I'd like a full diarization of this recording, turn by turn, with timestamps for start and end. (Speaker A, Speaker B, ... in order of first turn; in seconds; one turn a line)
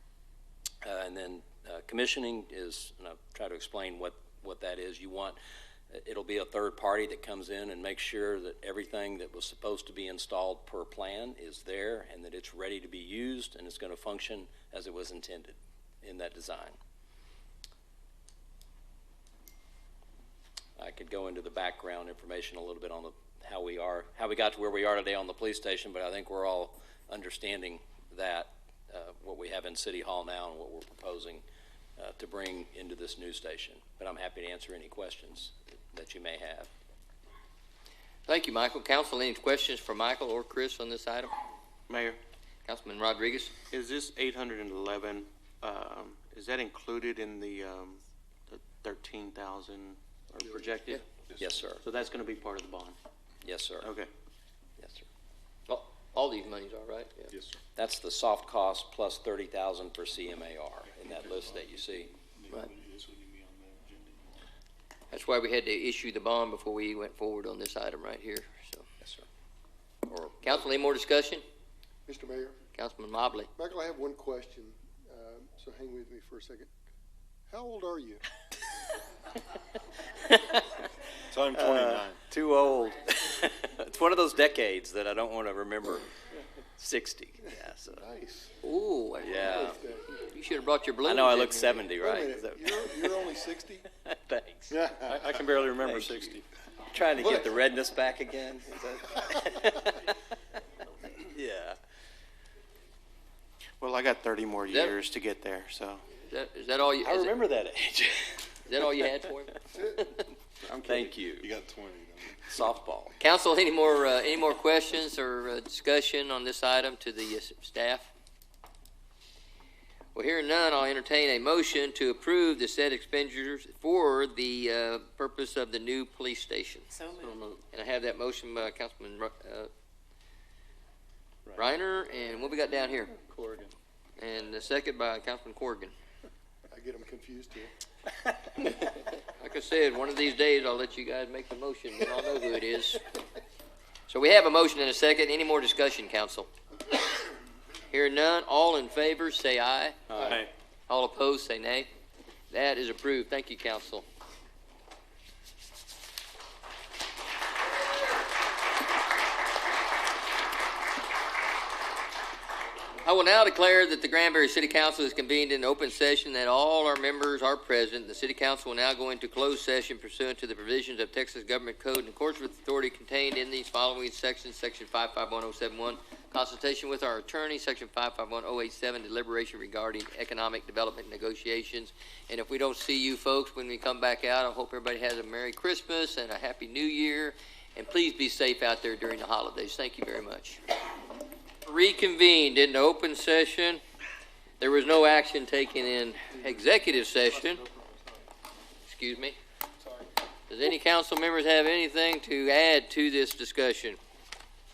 Speaker A: 0.8-5.4
Speaker A: 5.9-16.8
Speaker A: 20.8-31.4
Speaker A: 32.0-36.7
Speaker B: 38.3-41.3
Speaker C: 41.9-42.2
Speaker B: 42.7-43.5
Speaker C: 43.7-51.0
Speaker A: 51.4-51.8
Speaker C: 51.8-53.0
Speaker A: 53.4-53.9
Speaker C: 53.8-54.1
Speaker A: 54.8-55.0
Speaker B: 55.7-57.3
Speaker D: 57.3-57.6
Speaker A: 57.8-62.1
Speaker D: 60.9-64.5
Speaker B: 65.1-68.8
Speaker A: 70.1-70.5
Speaker B: 70.4-71.4
Speaker E: 72.0-72.6
Speaker B: 72.8-73.5
Speaker E: 73.6-76.7
Speaker E: 77.5-78.2
Speaker A: 80.3-80.6
Speaker D: 81.3-82.2
Speaker A: 81.5-86.1
Speaker A: 86.8-88.0
Speaker E: 87.9-88.5
Speaker B: 88.6-91.8
Speaker A: 89.2-89.8
Speaker E: 89.3-90.1
Speaker A: 91.0-93.3
Speaker E: 92.0-93.9
Speaker A: 94.0-94.8
Speaker E: 94.7-95.2
Speaker D: 95.1-96.4
Speaker A: 95.8-100.1
Speaker E: 97.2-97.4
Speaker A: 101.1-101.8
Speaker C: 103.8-106.0
Speaker B: 104.7-104.9
Speaker B: 106.2-107.4
Speaker A: 107.0-108.8
Speaker B: 108.7-110.2
Speaker D: 110.7-112.4
Speaker A: 110.7-111.5
Speaker A: 112.4-113.2
Speaker B: 113.2-118.1
Speaker B: 120.1-126.9
Speaker B: 127.7-129.7
Speaker B: 131.5-133.1
Speaker D: 133.2-133.7
Speaker B: 134.2-135.9
Speaker E: 136.7-137.7
Speaker B: 138.8-143.0
Speaker B: 144.1-146.5
Speaker B: 147.9-150.4
Speaker C: 150.1-150.5
Speaker B: 150.9-151.9
Speaker B: 152.5-154.0
Speaker B: 163.0-190.6
Speaker B: 191.7-193.8
Speaker B: 194.6-197.7
Speaker B: 198.8-199.3
Speaker B: 200.5-204.0